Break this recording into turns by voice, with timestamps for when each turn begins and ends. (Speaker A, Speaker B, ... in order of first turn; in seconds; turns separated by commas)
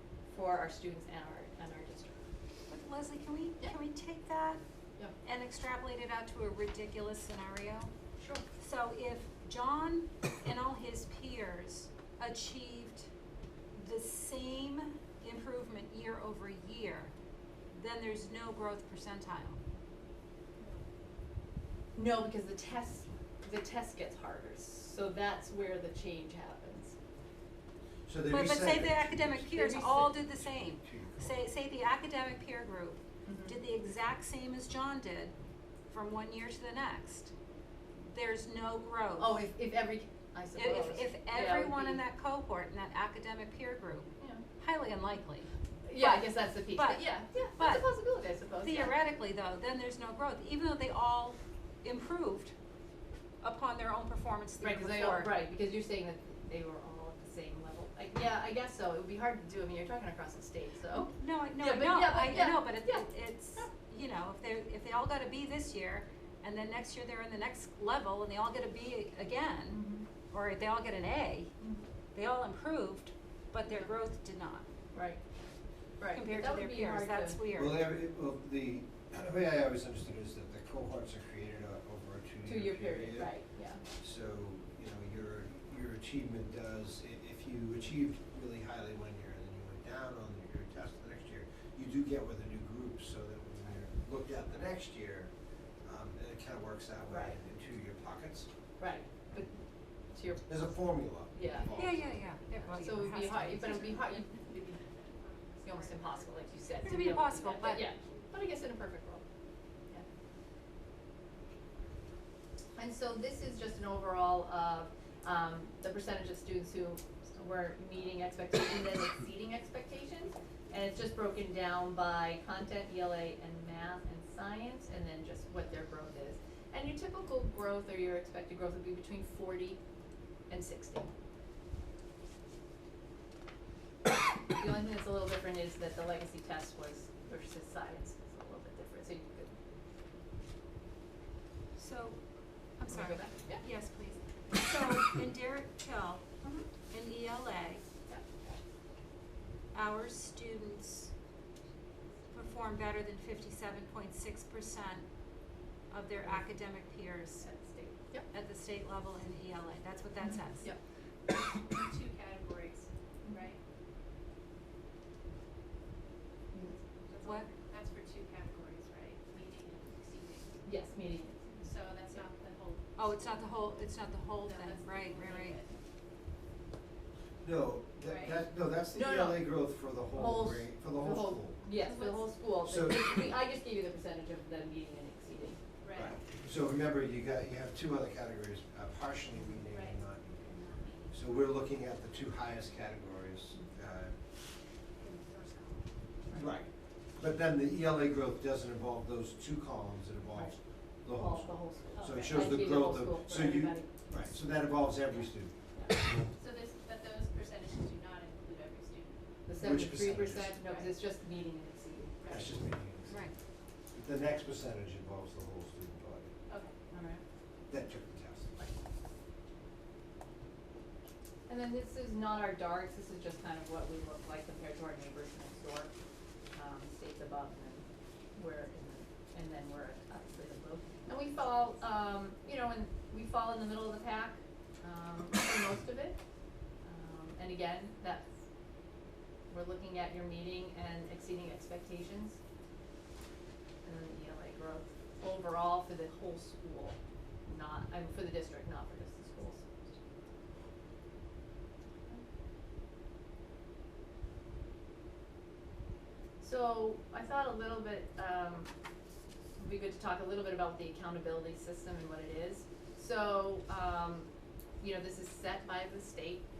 Speaker A: 0.3-2.2, Speaker B: 2.7-4.6, Speaker B: 5.2-7.9, Speaker A: 8.2-8.4, Speaker B: 8.6-13.1, Speaker B: 13.7-17.1, Speaker B: 17.7-19.6, Speaker A: 21.9-27.0, Speaker C: 28.1-31.4, Speaker B: 28.3-35.3, Speaker A: 33.2-33.5, Speaker B: 35.9-37.3, Speaker B: 38.0-39.5, Speaker A: 39.2-42.0, Speaker B: 40.5-47.9, Speaker A: 44.2-44.4, Speaker A: 45.9-49.0, Speaker B: 48.6-52.5, Speaker B: 53.4-55.3, Speaker A: 54.6-63.7, Speaker B: 61.1-71.5, Speaker A: 69.7-70.1, Speaker B: 72.1-74.6, Speaker A: 74.9-75.2, Speaker A: 76.0-77.4, Speaker B: 76.1-77.8, Speaker C: 77.5-83.4, Speaker A: 82.4-83.8, Speaker C: 84.0-95.3, Speaker C: 95.8-98.5, Speaker A: 97.1-97.4, Speaker A: 98.8-99.5, Speaker A: 100.1-100.8, Speaker C: 100.5-102.2, Speaker A: 101.3-101.7, Speaker B: 101.7-104.0, Speaker A: 102.7-104.8, Speaker D: 103.7-108.3, Speaker A: 105.6-109.2, Speaker B: 106.8-107.8, Speaker A: 112.7-129.8, Speaker A: 130.5-131.1, Speaker A: 134.5-139.6, Speaker B: 141.8-142.2, Speaker B: 142.8-146.2, Speaker A: 142.9-143.6, Speaker A: 146.4-146.7, Speaker B: 146.9-147.8, Speaker B: 149.7-151.1, Speaker B: 152.3-155.1, Speaker B: 155.9-157.4, Speaker A: 157.4-158.3, Speaker B: 158.3-160.7, Speaker A: 160.2-160.8, Speaker D: 161.3-163.6, Speaker A: 163.2-163.5, Speaker D: 167.1-170.6, Speaker B: 167.2-167.5, Speaker A: 170.6-171.6, Speaker D: 171.6-173.5, Speaker B: 173.0-175.6, Speaker D: 174.4-175.8, Speaker C: 177.4-181.6, Speaker D: 178.0-178.4, Speaker A: 178.9-179.5, Speaker A: 180.1-185.6, Speaker D: 181.8-182.3, Speaker C: 182.6-183.3, Speaker D: 185.8-186.1, Speaker C: 186.0-194.1, Speaker D: 189.7-191.2, Speaker D: 195.0-195.9, Speaker A: 196.3-196.5, Speaker C: 196.3-205.5, Speaker A: 200.3-200.6, Speaker A: 201.1-204.3, Speaker D: 202.0-202.3, Speaker D: 206.3-209.2, Speaker A: 209.5-212.8, Speaker C: 209.6-210.6, Speaker D: 210.6-210.9, Speaker C: 212.3-213.2, Speaker B: 213.1-213.3, Speaker C: 213.9-216.3, Speaker D: 216.5-216.8, Speaker A: 216.9-217.2, Speaker C: 217.7-218.6, Speaker A: 221.5-225.9, Speaker A: 226.5-236.2, Speaker A: 236.8-238.3, Speaker A: 239.5-242.4, Speaker A: 243.8-250.0, Speaker A: 256.4-258.7, Speaker A: 259.6-266.4